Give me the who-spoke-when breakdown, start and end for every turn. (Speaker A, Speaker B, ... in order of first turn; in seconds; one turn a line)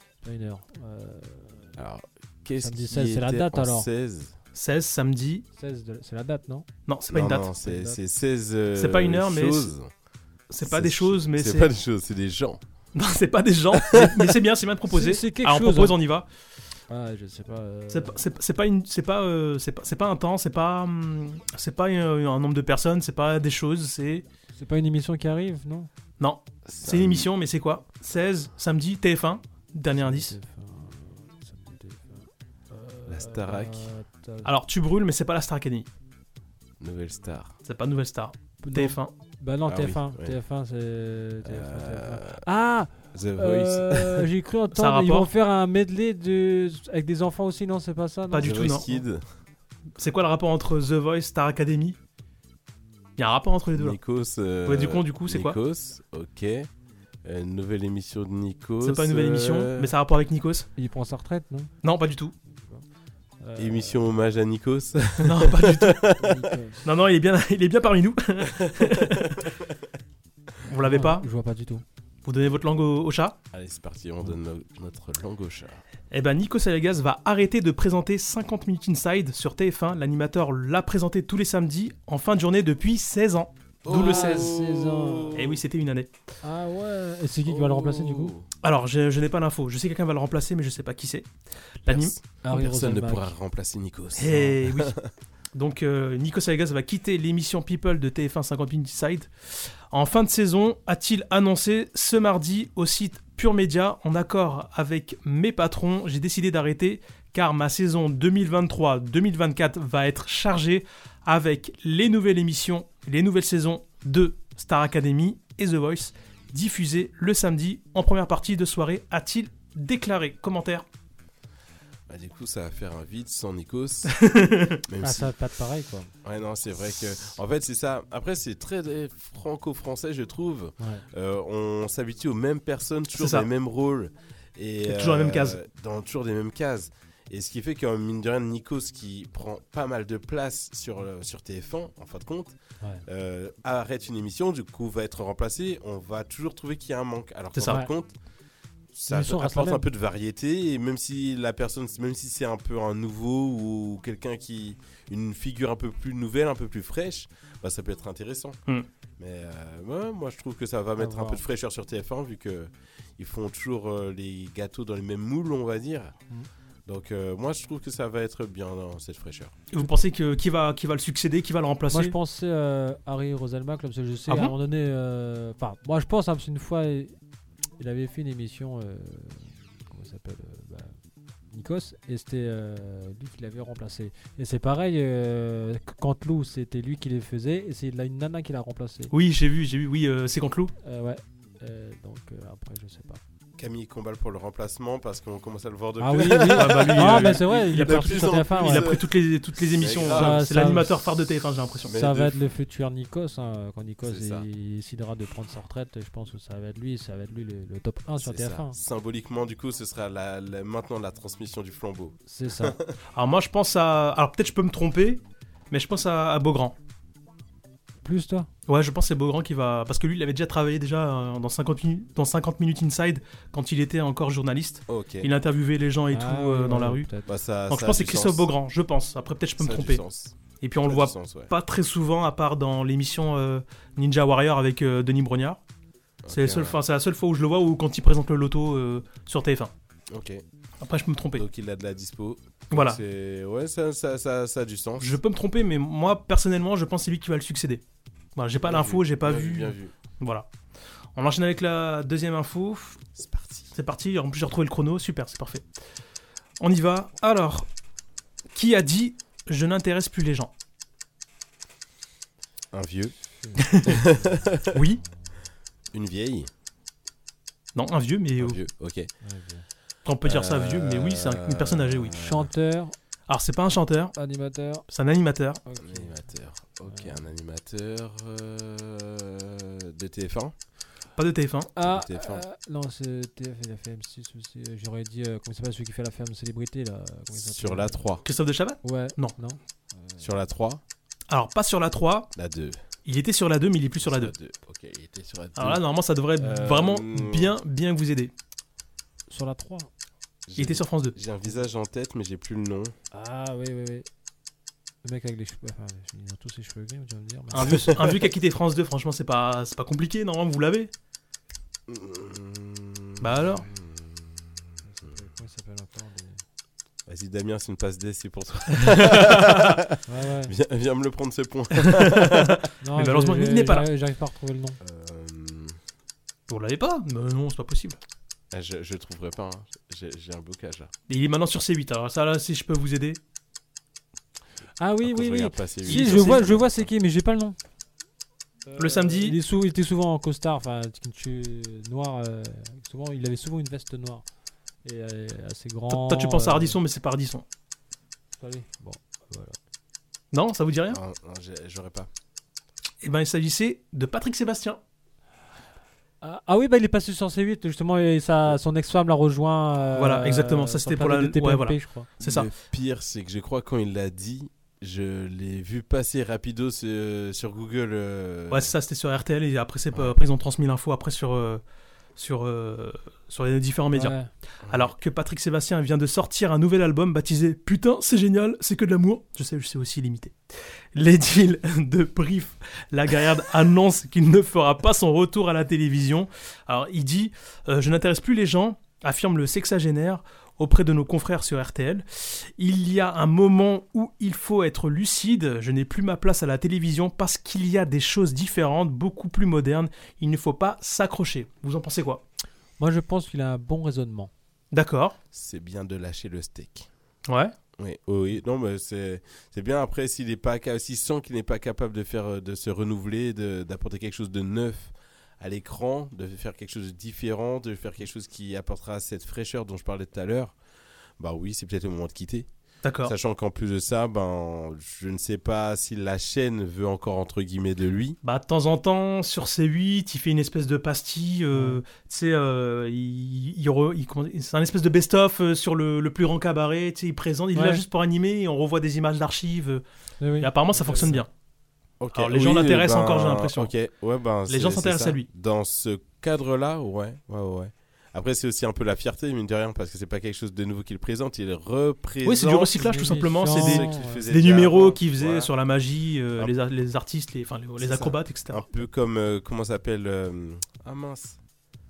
Speaker A: 0.2-1.7
Speaker B: 1.8-4.3
Speaker A: 2.6-3.9
Speaker C: 4.5-5.4
Speaker A: 5.6-6.7
Speaker C: 6.9-7.5
Speaker B: 7.1-9.9
Speaker A: 7.6-8.0
Speaker C: 8.8-9.7
Speaker C: 10.5-11.7
Speaker B: 10.6-12.6
Speaker C: 12.9-16.2
Speaker B: 13.7-14.3
Speaker A: 14.9-15.9
Speaker A: 16.9-18.2
Speaker C: 17.9-24.2
Speaker A: 24.5-25.9
Speaker C: 26.2-30.3
Speaker B: 26.6-27.3
Speaker A: 29.9-34.5
Speaker B: 33.1-33.9
Speaker C: 34.4-35.9
Speaker B: 36.8-37.5
Speaker C: 37.6-39.1
Speaker A: 38.6-49.0
Speaker B: 39.7-40.4
Speaker B: 41.4-42.4
Speaker B: 43.1-44.3
Speaker C: 44.7-45.3
Speaker C: 48.3-48.9
Speaker B: 48.4-49.2
Speaker C: 50.0-52.0
Speaker C: 53.2-54.0
Speaker B: 53.7-56.7
Speaker C: 54.6-55.6
Speaker B: 57.2-59.9
Speaker C: 58.8-60.7
Speaker A: 60.8-61.7
Speaker C: 61.8-62.3
Speaker A: 62.4-62.8
Speaker A: 63.4-64.0
Speaker B: 63.5-66.4
Speaker C: 65.2-66.0
Speaker A: 66.2-66.8
Speaker C: 66.8-69.4
Speaker B: 68.8-69.0
Speaker C: 70.7-71.2
Speaker A: 70.8-71.8
Speaker C: 72.2-73.4
Speaker B: 73.5-75.8
Speaker C: 76.1-84.5
Speaker B: 83.8-85.6
Speaker A: 83.9-85.4
Speaker C: 85.3-86.1
Speaker A: 86.4-88.3
Speaker B: 87.5-88.5
Speaker C: 88.6-91.3
Speaker C: 91.8-92.1
Speaker B: 91.9-95.0
Speaker A: 92.4-93.3
Speaker C: 94.2-94.9
Speaker C: 95.5-120.8
Speaker B: 122.1-124.2
Speaker C: 124.1-124.8
Speaker B: 124.8-125.3
Speaker A: 125.0-126.1
Speaker B: 126.2-142.5
Speaker C: 133.2-133.5
Speaker C: 134.8-135.6
Speaker B: 143.1-148.1
Speaker C: 147.6-147.8
Speaker A: 147.6-147.9
Speaker B: 148.9-158.6
Speaker A: 149.1-149.8
Speaker B: 159.2-166.1
Speaker A: 161.0-161.4
Speaker B: 166.8-169.5
Speaker C: 169.7-172.2
Speaker A: 171.9-177.1
Speaker C: 174.3-174.5
Speaker A: 177.8-180.9
Speaker A: 181.5-189.1
Speaker C: 189.1-190.7
Speaker A: 190.8-193.2
Speaker B: 193.6-200.5
Speaker A: 196.0-198.9
Speaker C: 196.3-201.9
Speaker A: 200.1-200.9
Speaker B: 201.8-202.3
Speaker A: 201.9-208.8
Speaker B: 204.0-204.4
Speaker B: 208.2-212.9
Speaker A: 212.3-212.8
Speaker C: 213.1-216.8
Speaker A: 218.0-218.5
Speaker C: 218.7-227.1
Speaker B: 224.9-225.3
Speaker A: 226.1-227.3
Speaker B: 227.2-228.5
Speaker C: 227.7-230.0
Speaker B: 229.6-231.5
Speaker C: 230.6-235.6
Speaker B: 236.2-236.8
Speaker C: 236.3-239.7
Speaker B: 240.1-240.4
Speaker C: 240.8-241.4
Speaker B: 241.3-245.2
Speaker C: 242.7-243.0
Speaker C: 245.0-247.8
Speaker C: 248.3-250.5
Speaker B: 248.6-249.9
Speaker C: 251.2-253.0
Speaker B: 253.2-253.7
Speaker C: 253.7-255.7
Speaker C: 256.6-257.7
Speaker C: 258.5-260.5
Speaker B: 262.7-264.8
Speaker A: 263.4-264.4
Speaker C: 264.7-265.0
Speaker B: 265.9-266.5
Speaker C: 267.7-268.6
Speaker B: 268.4-269.1
Speaker A: 269.2-269.6
Speaker C: 270.0-272.1
Speaker B: 270.2-272.5
Speaker A: 272.2-272.9
Speaker C: 273.3-274.1
Speaker A: 274.1-274.8
Speaker C: 274.9-275.6
Speaker A: 275.6-276.2
Speaker B: 275.8-280.5
Speaker A: 276.8-277.2
Speaker C: 281.2-281.7
Speaker A: 281.8-288.0
Speaker B: 281.8-282.4
Speaker B: 287.3-288.2
Speaker C: 288.2-289.3
Speaker A: 288.8-290.3
Speaker B: 290.2-290.8
Speaker C: 291.3-292.3
Speaker B: 292.4-292.8
Speaker C: 293.1-294.3
Speaker B: 294.0-295.8
Speaker C: 295.6-298.3
Speaker B: 296.4-297.6
Speaker A: 299.3-299.9
Speaker B: 300.5-302.9
Speaker C: 300.6-301.1
Speaker A: 303.1-304.1
Speaker A: 305.0-307.9
Speaker C: 307.5-310.9
Speaker B: 307.6-308.1
Speaker B: 311.9-315.1
Speaker C: 313.2-313.6
Speaker A: 314.8-316.4
Speaker B: 317.1-322.5
Speaker C: 319.0-319.7
Speaker A: 320.1-320.5
Speaker C: 321.8-323.9
Speaker A: 322.8-324.8
Speaker B: 324.8-325.8
Speaker C: 326.5-328.0
Speaker B: 328.5-330.9
Speaker C: 331.1-333.2
Speaker A: 334.8-337.6
Speaker B: 335.0-336.9
Speaker C: 335.8-336.5
Speaker A: 338.6-344.2
Speaker C: 338.8-339.4
Speaker A: 344.8-346.8
Speaker C: 345.9-347.4
Speaker A: 348.4-349.6
Speaker C: 350.3-351.0
Speaker B: 350.9-352.1
Speaker C: 353.0-354.8
Speaker A: 356.2-362.1
Speaker C: 359.9-362.5
Speaker B: 362.2-368.7
Speaker C: 368.5-371.6
Speaker C: 372.2-374.1
Speaker A: 373.9-374.3
Speaker B: 374.7-374.9
Speaker C: 374.7-380.4
Speaker C: 380.9-402.2
Speaker A: 402.8-404.3
Speaker C: 404.7-405.1
Speaker B: 405.3-406.9
Speaker C: 407.3-407.5
Speaker B: 407.8-420.6
Speaker B: 421.2-422.5
Speaker C: 422.8-423.1
Speaker B: 423.0-428.2
Speaker C: 428.2-439.8
Speaker A: 431.5-431.8
Speaker A: 437.5-437.8
Speaker A: 440.2-441.2
Speaker C: 440.4-441.3
Speaker B: 442.0-455.5
Speaker C: 442.1-443.7
Speaker C: 444.5-445.3
Speaker C: 452.2-458.6
Speaker A: 452.8-454.3
Speaker B: 457.8-461.4